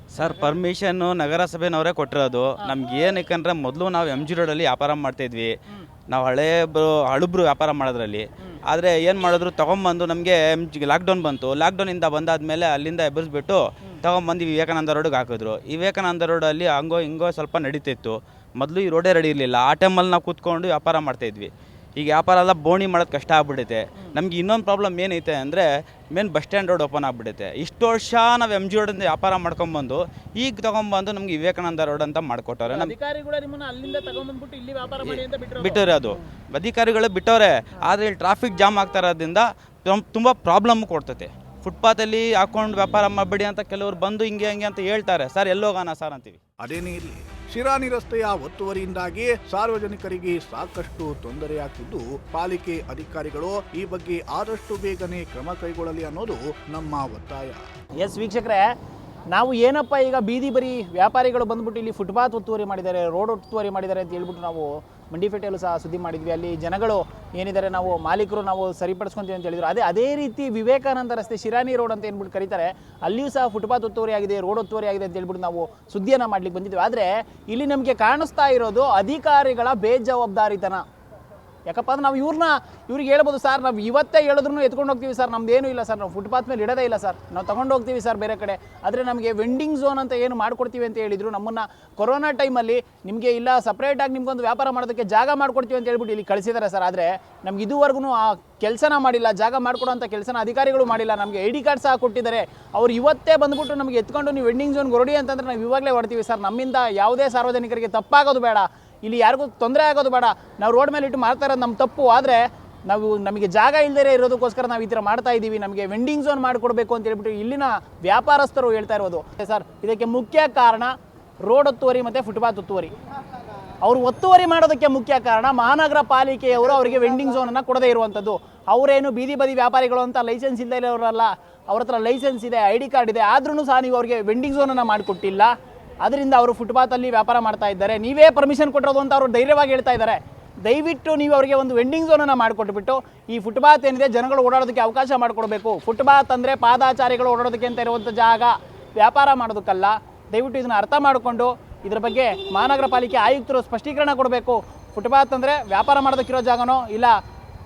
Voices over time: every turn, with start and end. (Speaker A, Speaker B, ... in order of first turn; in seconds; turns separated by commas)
Speaker A: 0.1-5.5, Speaker B: 0.3-0.5, Speaker A: 6.1-32.9, Speaker B: 32.7-36.1, Speaker A: 35.0-46.4, Speaker C: 46.6-57.6, Speaker B: 58.0-58.7, Speaker B: 59.3-80.8, Speaker B: 81.7-122.9, Speaker B: 123.8-157.1